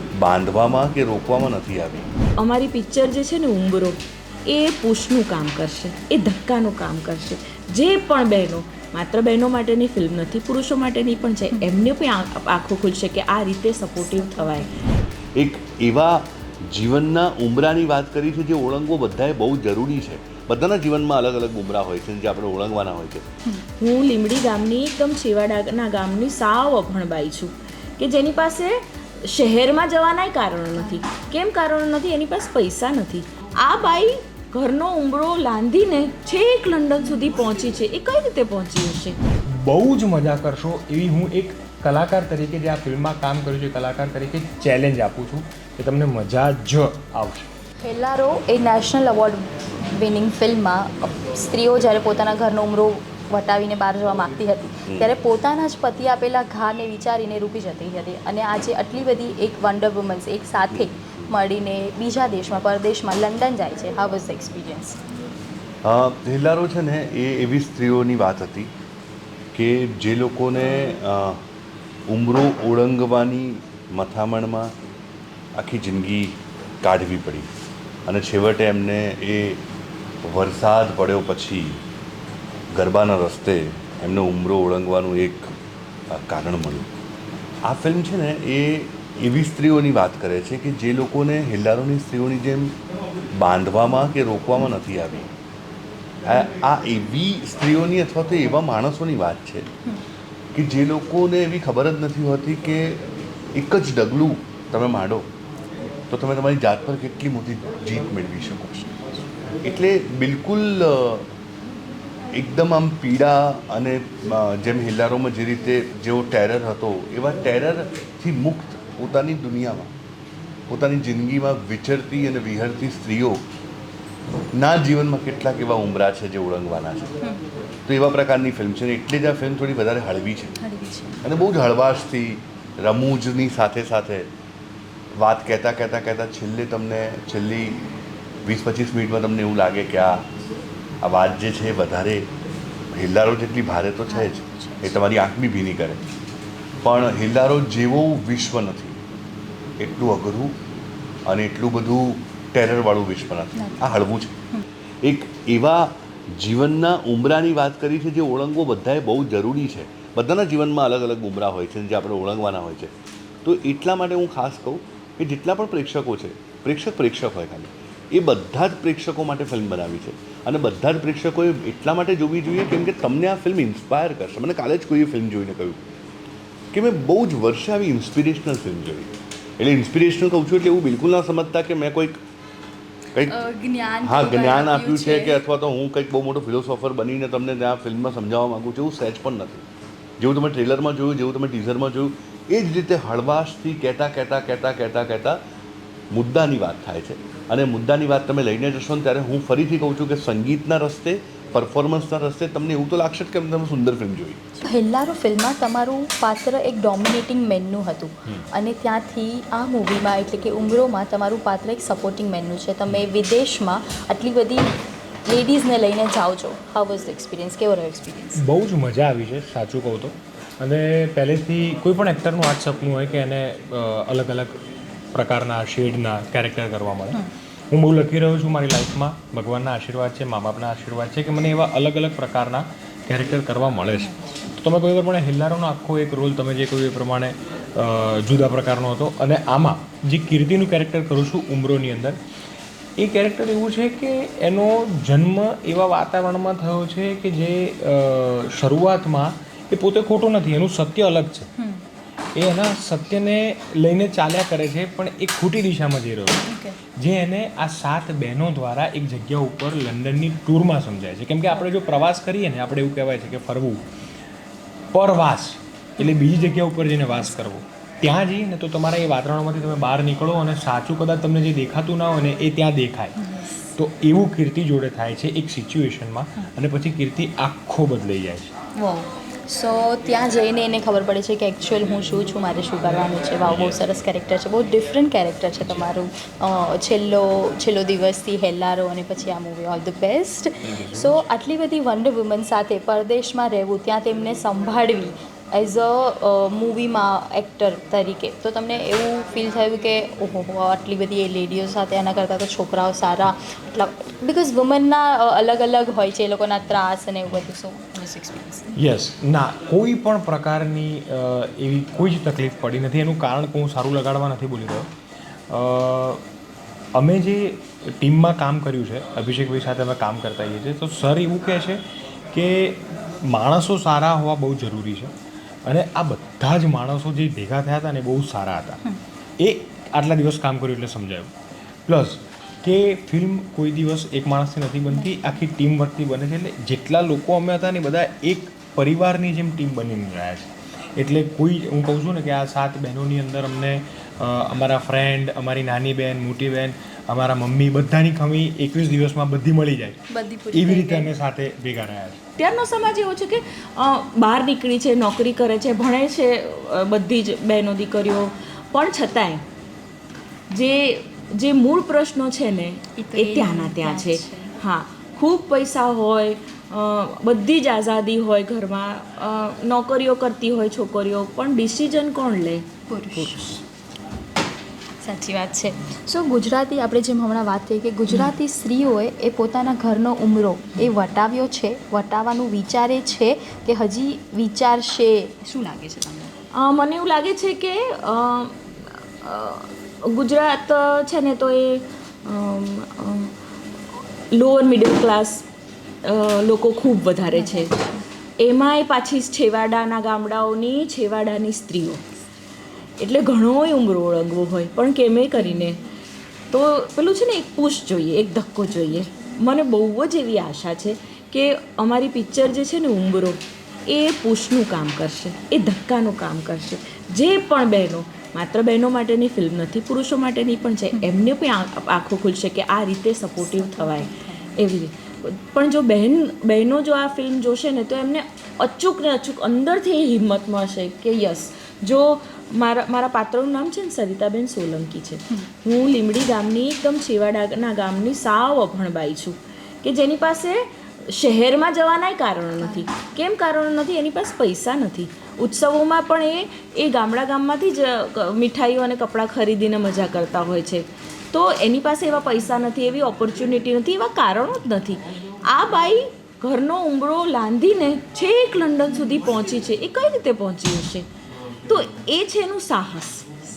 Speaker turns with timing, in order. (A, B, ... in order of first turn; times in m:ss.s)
0:00.2-0:02.1 A
0:02.4-0:14.7 B
0:14.1-0:14.7 C
0:15.4-0:23.4 A
0:23.8-0:39.2 B
0:39.5-0:47.5 D
0:47.8-0:49.4 C
0:49.9-1:05.0 C
0:54.8-0:55.1 A
1:05.8-1:08.7 A
1:09.5-1:11.4 A
1:12.1-1:14.7 A
1:15.6-1:17.5 A
1:18.1-1:19.6 A
1:20.2-1:21.8 A
1:22.7-1:25.6 A
1:26.1-1:26.9 A
1:27.6-1:32.8 A
1:33.4-1:35.3 A
1:36.2-1:39.7 A
1:40.5-1:45.3 A
1:46.1-1:48.8 A
1:49.6-1:51.3 A
1:52.3-1:59.9 A
2:00.7-2:03.4 A
2:04.5-2:07.2 A
2:07.9-2:10.6 A
2:10.6-2:11.2 C
2:11.2-2:14.3 A
2:15.2-2:17.8 A
2:18.4-2:20.3 A
2:21.0-2:22.3 A
2:22.9-2:26.0 A
2:24.1-2:24.9 C
2:26.8-2:29.0 A
2:29.8-2:30.6 A
2:31.2-2:34.4 A
2:33.6-2:34.6 C
2:35.0-2:42.9 A
2:43.4-2:55.8 A
2:56.7-3:02.2 A
3:03.1-3:03.4 A
3:03.3-3:05.4 C
3:04.0-3:09.6 A
3:10.2-3:15.4 A
3:16.1-3:24.4 A
3:24.6-3:34.6 C
3:35.3-3:38.4 C
3:38.4-3:44.6 D
3:45.1-4:02.2 D
3:54.0-3:54.4 C
4:03.0-4:11.5 D
4:11.6-4:11.8 C
4:12.4-4:16.5 D
4:16.4-4:16.8 C
4:17.0-4:23.8 D
4:24.9-4:38.5 D
4:38.8-5:08.8 C
4:50.6-4:51.2 A
5:08.8-5:14.9 D
5:15.5-5:16.2 D
5:16.9-5:21.8 D
5:22.3-5:25.1 D
5:25.6-5:28.8 D
5:29.4-5:31.3 D
5:31.9-5:52.2 D
5:50.1-5:51.1 C
5:52.4-5:59.4 B
6:00.5-6:13.6 B
6:03.0-6:04.6 C
6:12.9-6:13.4 C
6:15.0-6:26.3 C
6:26.6-6:33.3 B
6:34.3-6:35.4 B
6:36.0-6:37.7 B
6:37.3-6:38.0 C
6:38.4-6:42.0 B
6:43.0-6:45.8 B
6:45.4-6:45.8 C
6:46.5-7:41.1 B
7:03.4-7:04.5 C
7:22.6-7:22.9 C
7:41.7-7:43.3 B